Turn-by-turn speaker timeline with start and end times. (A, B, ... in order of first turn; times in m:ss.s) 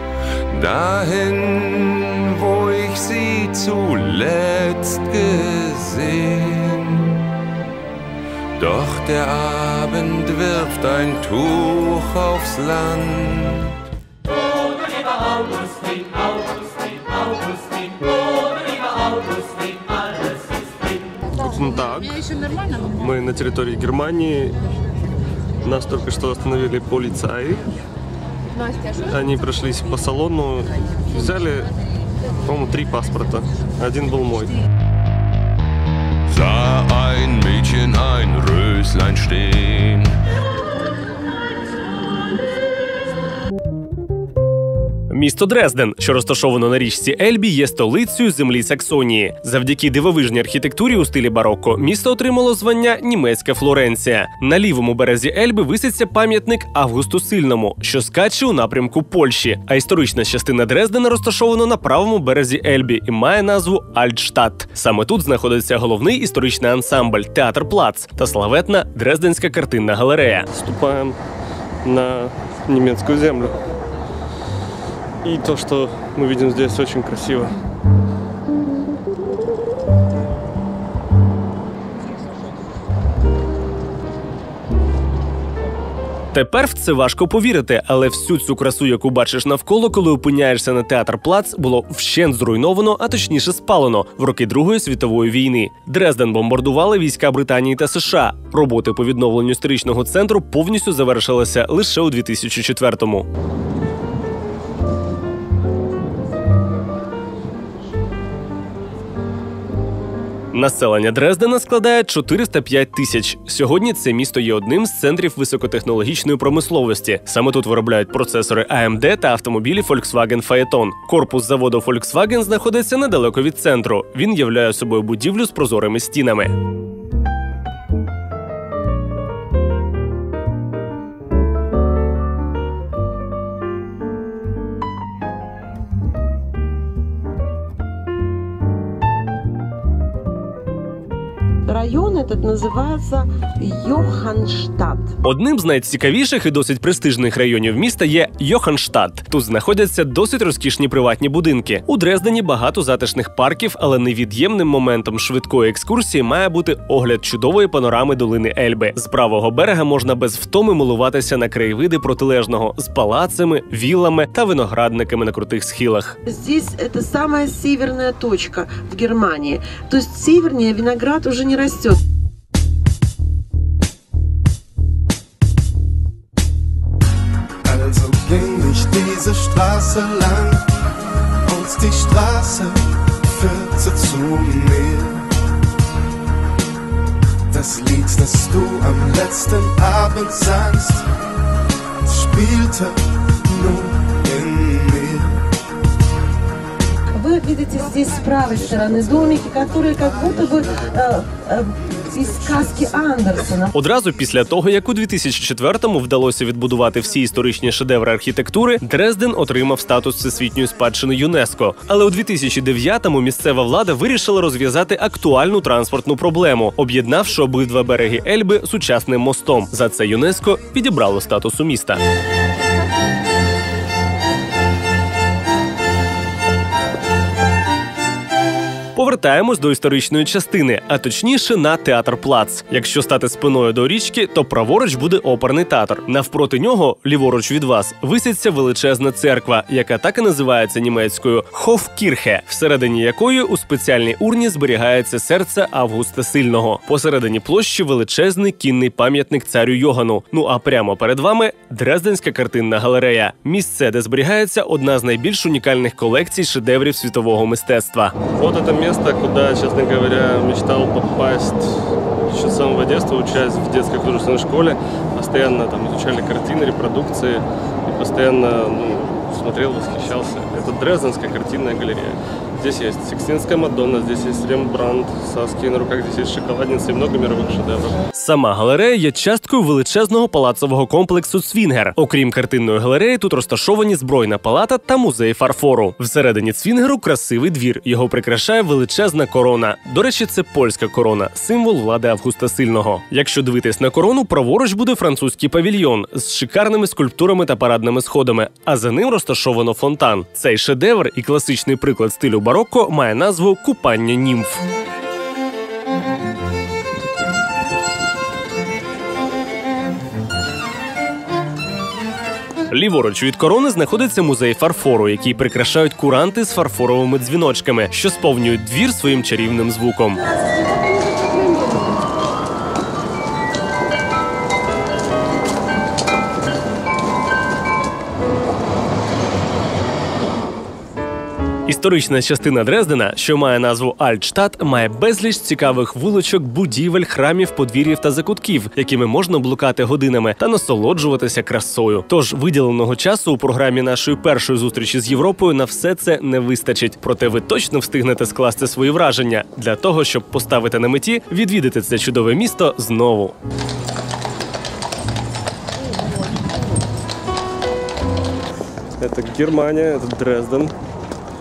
0:00.5-0:07.2 A
0:08.6-0:13.7 A
0:21.3-0:24.6 B
0:25.6-0:27.6 B
0:28.9-0:31.7 B
0:32.4-0:34.6 B
0:36.3-0:40.1 A
0:45.1-1:10.5 C
1:10.5-1:11.2 B
1:11.8-1:13.6 B
1:15.2-1:17.6 B
1:26.3-1:43.3 C
1:50.5-2:06.6 C
2:21.7-2:25.1 D
2:25.2-2:46.2 C
2:46.3-2:52.0 D
2:57.6-3:00.6 E
3:01.4-3:05.3 E
3:07.5-3:11.1 E
3:12.0-3:15.4 E
3:17.1-3:23.7 D
3:23.7-3:42.0 C
3:49.0-4:18.2 C
4:18.3-4:38.0 B
4:38.2-5:04.6 C
5:12.7-5:20.2 C
5:31.7-5:53.4 C
5:59.0-6:00.7 B